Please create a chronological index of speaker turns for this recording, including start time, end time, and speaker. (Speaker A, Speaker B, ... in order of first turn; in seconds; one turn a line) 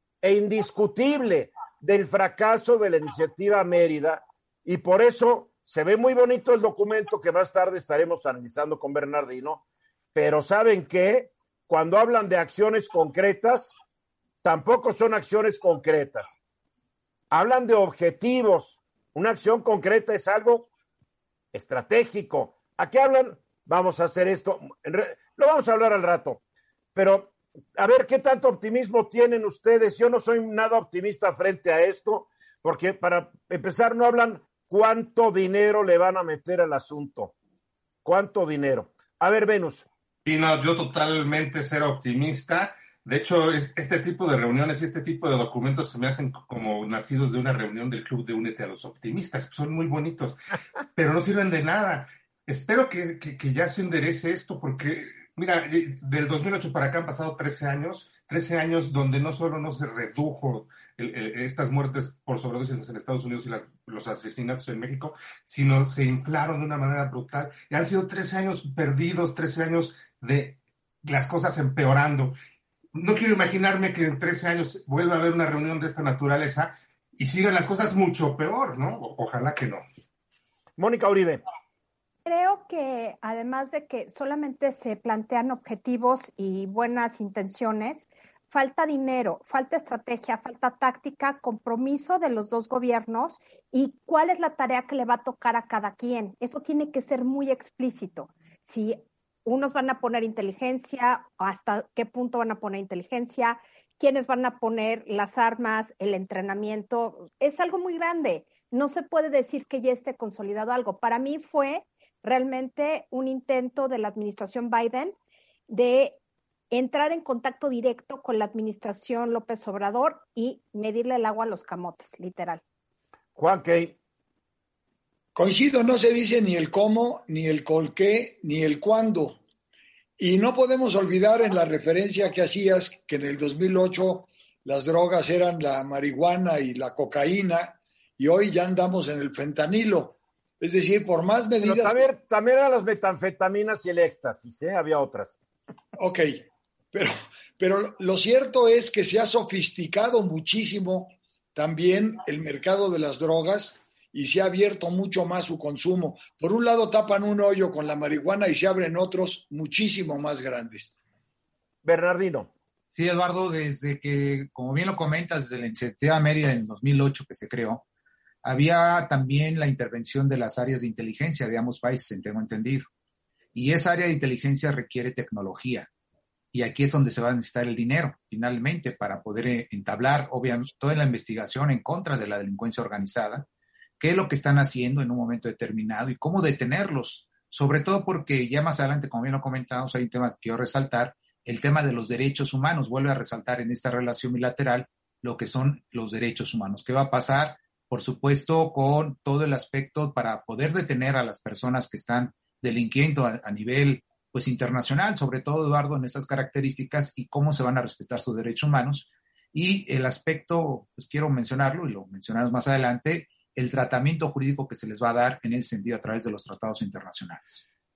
Speaker A: 0.2-9.6
Speaker A: 10.1-13.8
Speaker A: 14.4-16.4
Speaker A: 17.3-20.7
Speaker A: 21.5-26.4
Speaker A: 26.9-37.3
Speaker A: 38.0-39.9
Speaker B: 40.2-50.4
Speaker B: 50.9-72.4
Speaker B: 72.9-79.8
Speaker A: 80.8-81.4
Speaker C: 82.2-115.2
Speaker C: 115.7-116.2
Speaker C: 116.7-122.6
Speaker A: 123.3-124.0
Speaker D: 125.3-129.4
Speaker D: 130.2-142.1
Speaker A: 141.6-145.3
Speaker D: 146.0-160.9
Speaker A: 161.8-162.5
Speaker E: 162.9-167.8
Speaker E: 168.4-172.9
Speaker E: 173.5-175.9
Speaker E: 176.5-183.5
Speaker E: 184.0-217.6